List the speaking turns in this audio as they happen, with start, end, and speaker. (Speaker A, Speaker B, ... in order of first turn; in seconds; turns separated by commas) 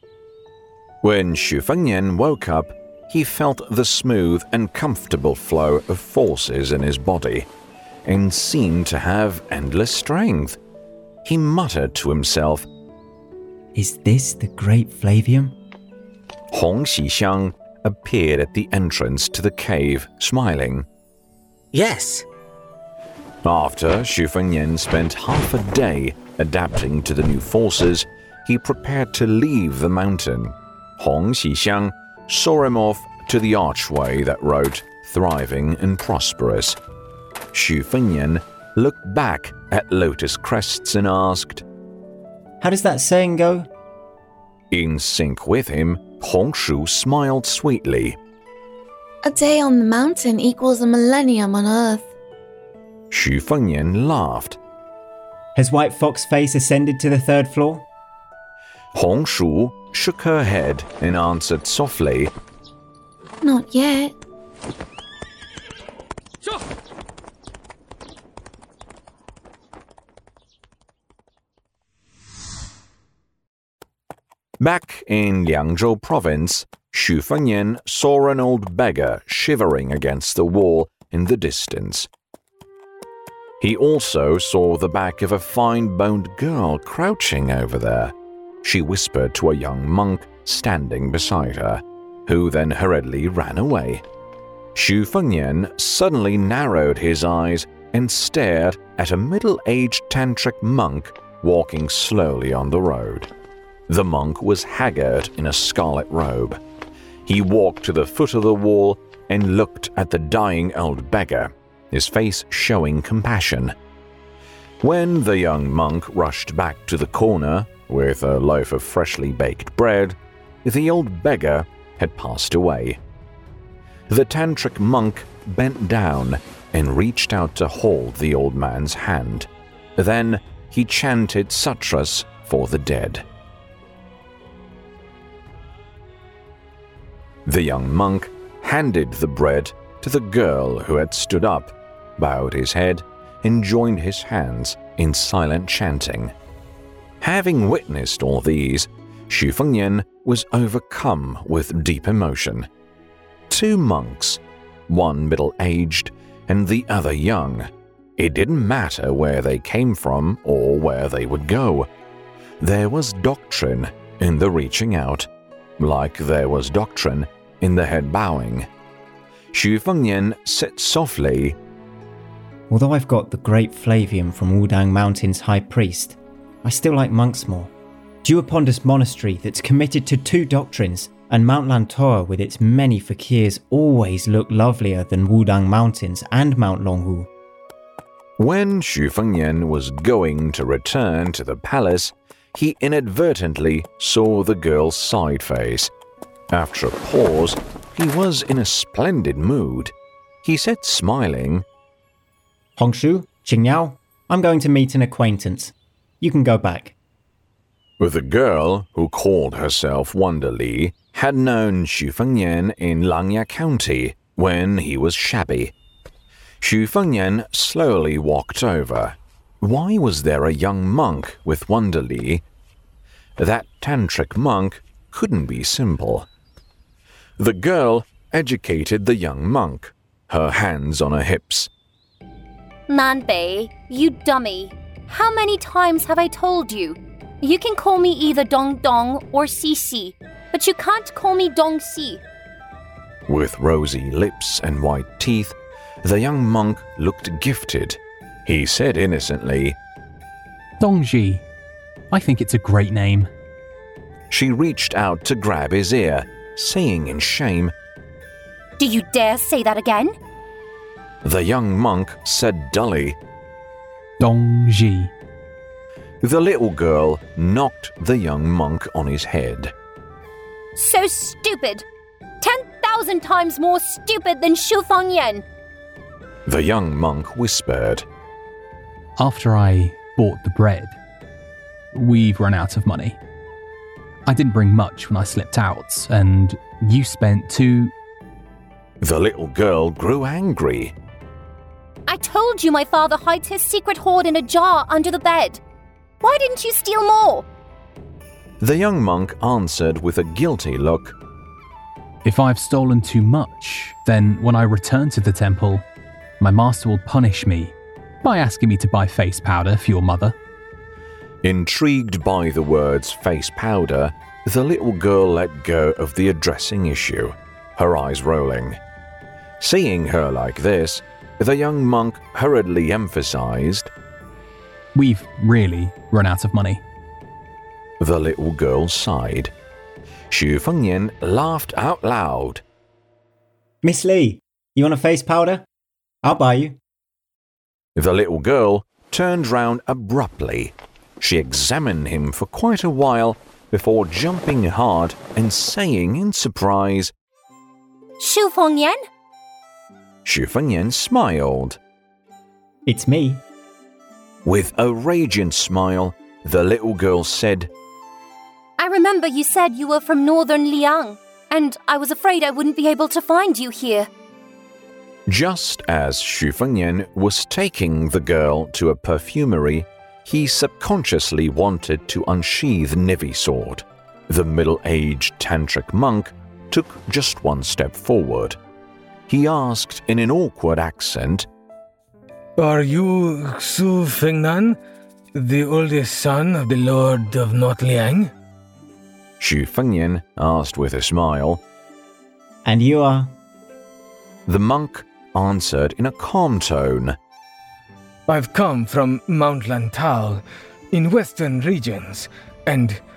Speaker A: 1.0-7.5, Speaker A: 8.1-10.6, Speaker A: 11.2-12.7, Speaker B: 13.7-15.5, Speaker A: 16.5-20.9, Speaker C: 21.8-22.2, Speaker A: 23.4-36.8, Speaker A: 37.5-41.6, Speaker B: 42.6-43.7, Speaker A: 44.7-48.2, Speaker D: 49.2-52.1, Speaker A: 53.1-54.6, Speaker B: 55.5-57.8, Speaker A: 58.9-62.3, Speaker D: 63.4-64.1, Speaker A: 74.6-82.1, Speaker A: 83.6-94.0, Speaker A: 94.7-103.3, Speaker A: 103.9-106.6, Speaker A: 107.2-113.7, Speaker A: 114.8-123.0, Speaker A: 124.1-133.2, Speaker A: 137.4-146.3, Speaker A: 147.2-152.7, Speaker A: 153.5-161.9, Speaker A: 162.6-168.7, Speaker A: 169.5-171.6, Speaker B: 172.7-177.7, Speaker B: 178.2-187.3, Speaker A: 188.4-195.9, Speaker A: 196.5-201.7, Speaker B: 202.8-206.9, Speaker A: 208.0-215.7, Speaker A: 216.6-222.4, Speaker A: 223.4-226.3, Speaker A: 227.4-231.7, Speaker E: 232.9-242.2, Speaker A: 243.3-249.8, Speaker F: 250.8-251.4, Speaker F: 252.1-253.3, Speaker A: 254.3-257.7, Speaker E: 258.8-260.1, Speaker A: 261.2-263.2, Speaker F: 264.2-265.1, Speaker A: 266.2-269.7, Speaker E: 270.7-271.8, Speaker E: 272.4-275.4, Speaker A: 276.5-278.1, Speaker F: 279.2-281.0, Speaker F: 281.9-283.2, Speaker F: 284.3-287.9, Speaker A: 289.0-290.9, Speaker E: 292.1-295.6, Speaker E: 296.2-297.4, Speaker A: 298.6-301.2, Speaker F: 302.2-305.8, Speaker F: 306.4-310.4, Speaker A: 311.4-318.8, Speaker A: 319.6-323.9, Speaker F: 324.9-326.8, Speaker A: 328.0-329.5, Speaker A: 330.3-332.6, Speaker B: 333.8-335.6, Speaker B: 336.2-336.8, Speaker A: 337.9-347.1, Speaker E: 348.2-349.0, Speaker A: 350.2-351.8, Speaker B: 352.9-353.4, Speaker A: 354.4-357.7, Speaker E: 358.8-364.1, Speaker A: 365.3-378.6, Speaker A: 379.3-381.5, Speaker C: 382.6-384.8, Speaker C: 385.3-388.3, Speaker A: 389.4-391.6, Speaker B: 392.6-393.3, Speaker A: 394.5-397.2, Speaker C: 398.3-403.0